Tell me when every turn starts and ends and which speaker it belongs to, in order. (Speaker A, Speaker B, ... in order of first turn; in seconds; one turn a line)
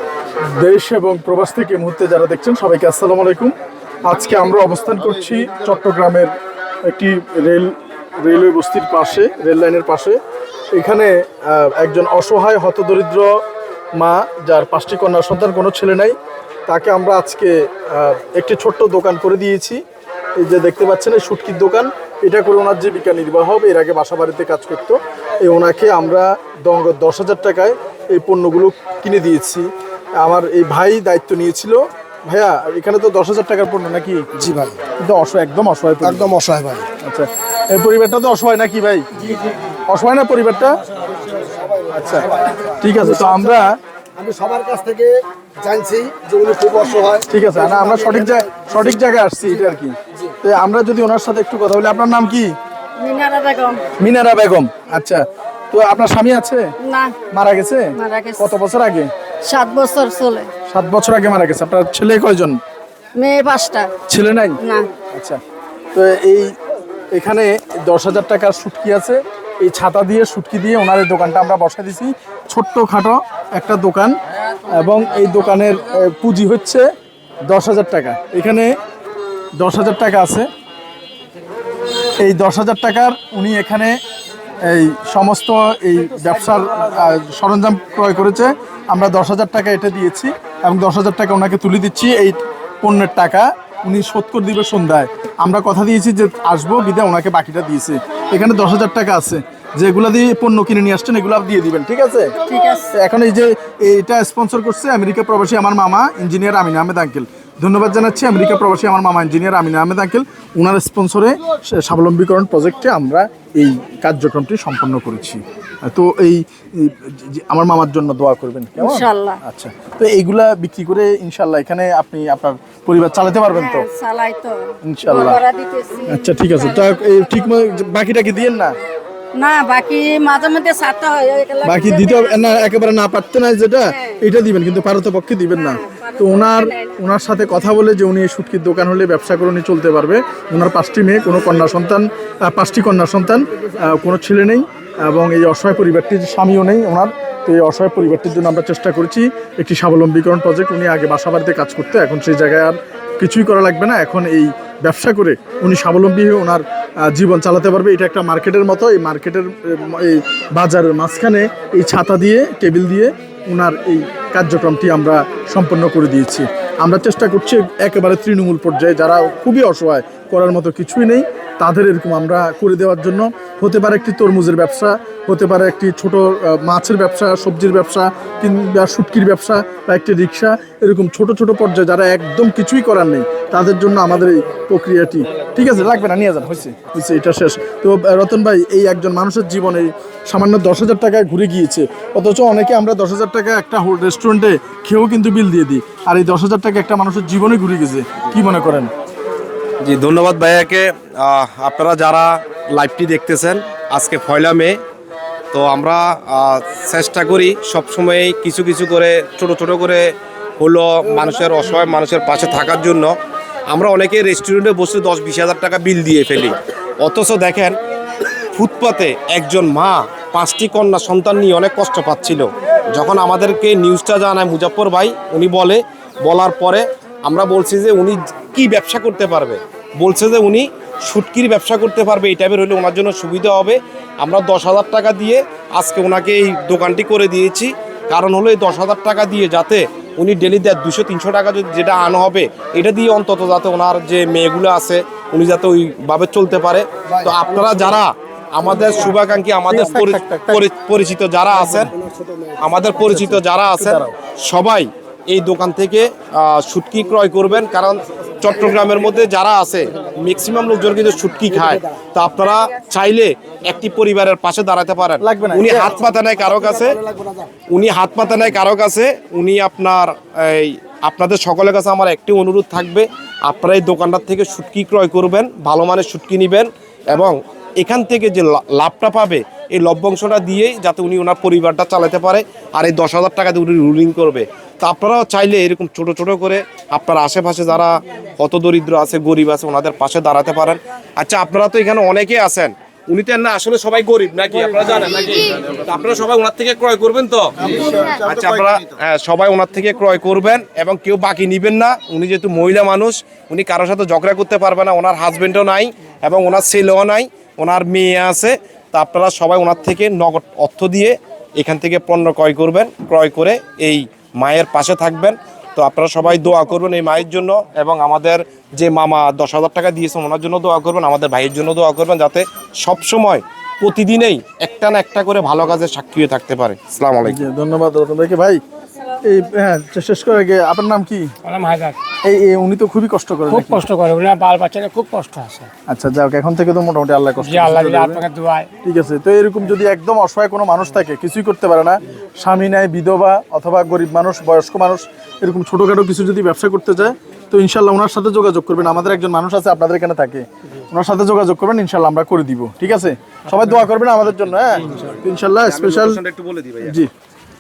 Speaker A: 0.6-6.3
Speaker A: 6.9-10.2
Speaker A: 10.7-13.3
Speaker A: 14.0-16.1
Speaker A: 16.7-19.8
Speaker A: 20.4-29.7
Speaker A: 30.2-34.3
Speaker B: 34.4-34.8
Speaker A: 35.0-36.3
Speaker B: 36.2-36.9
Speaker A: 37.0-39.1
Speaker A: 39.9-40.8
Speaker B: 41.3-41.7
Speaker A: 41.9-43.8
Speaker B: 43.2-43.5
Speaker B: 44.2-48.2
Speaker A: 47.2-52.5
Speaker C: 53.0-53.8
Speaker A: 54.0-56.7
Speaker C: 56.9-57.1
Speaker A: 57.3-59.1
Speaker C: 58.0-58.5
Speaker C: 59.5-60.5
Speaker A: 60.7-62.6
Speaker C: 63.2-63.9
Speaker A: 64.1-64.6
Speaker C: 64.6-64.9
Speaker A: 65.1-65.4
Speaker A: 65.9-66.5
Speaker A: 67.1-74.1
Speaker A: 74.7-76.9
Speaker A: 77.5-78.7
Speaker A: 79.6-80.5
Speaker A: 82.2-84.0
Speaker A: 84.6-102.3
Speaker C: 102.5-102.9
Speaker A: 102.9-123.9
Speaker C: 118.8-119.4
Speaker C: 123.5-127.4
Speaker A: 124.8-125.4
Speaker A: 126.1-128.8
Speaker C: 129.3-132.7
Speaker A: 131.6-198.9
Speaker C: 133.9-134.2
Speaker C: 135.7-136.9
Speaker D: 199.8-204.8
Speaker D: 205.5-210.1
Speaker D: 210.6-213.1
Speaker D: 213.7-217.8
Speaker D: 218.5-251.9
Speaker A: 249.7-250.7
Speaker D: 252.6-267.0
Speaker A: 253.1-254.1
Speaker A: 265.2-265.9
Speaker D: 267.7-327.4
Speaker A: 327.2-328.6
Speaker A: 329.2-331.3
Speaker E: 331.4-332.0
Speaker A: 332.2-333.8
Speaker E: 333.5-335.7
Speaker A: 335.9-338.2
Speaker E: 337.4-338.7
Speaker A: 338.8-356.2
Speaker D: 355.6-357.0
Speaker A: 356.8-357.1